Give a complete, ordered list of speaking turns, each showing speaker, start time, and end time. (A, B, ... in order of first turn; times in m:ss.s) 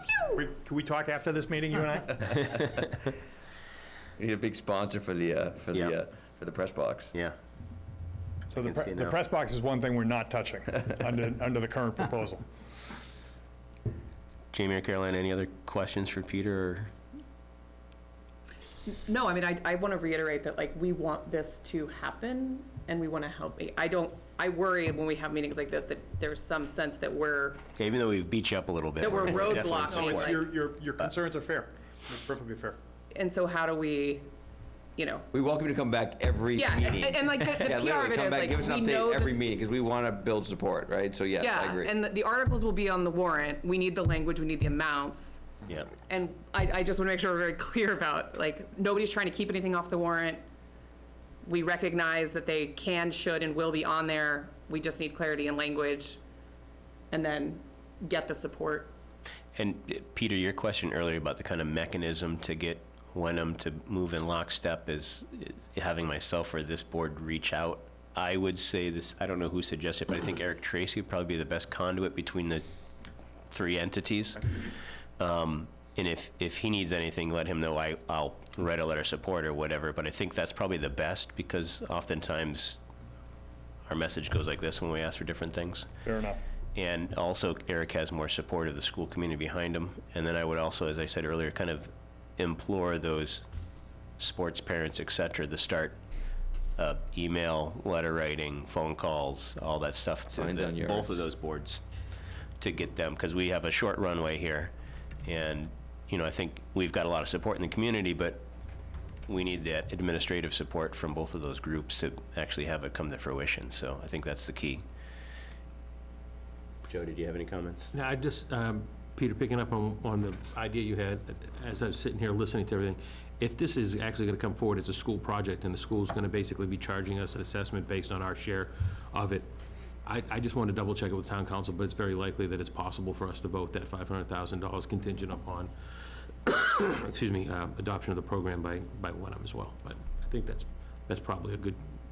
0:00.3-0:02.7 A
0:04.2-0:07.1 B
0:08.5-0:12.4 A
0:08.6-0:09.2 C
0:14.5-0:16.9 C
0:18.9-0:27.6 D
0:27.8-0:30.4 C
0:29.0-0:30.4 D
0:29.5-0:32.8 A
0:33.1-0:34.3 D
0:35.0-0:35.2 D
0:35.3-0:42.0 B
0:36.5-0:39.4 D
0:41.4-0:45.4 D
0:46.0-0:50.4 D
0:51.4-0:56.2 D
0:57.1-0:58.9 D
0:59.6-1:12.6 C
1:13.5-1:14.5 C
1:15.2-1:22.8 C
1:23.9-1:25.9 C
1:26.0-1:26.4 A
1:26.7-1:33.4 C
1:34.2-1:36.0 C
1:36.8-1:41.8 C
1:40.3-1:41.2 B
1:42.6-1:44.7 C
1:45.2-1:48.4 C
1:49.3-1:54.8 C
1:56.8-1:57.9 C
1:57.9-2:09.4 E
2:10.0-2:15.7 E
2:16.4-2:21.8 E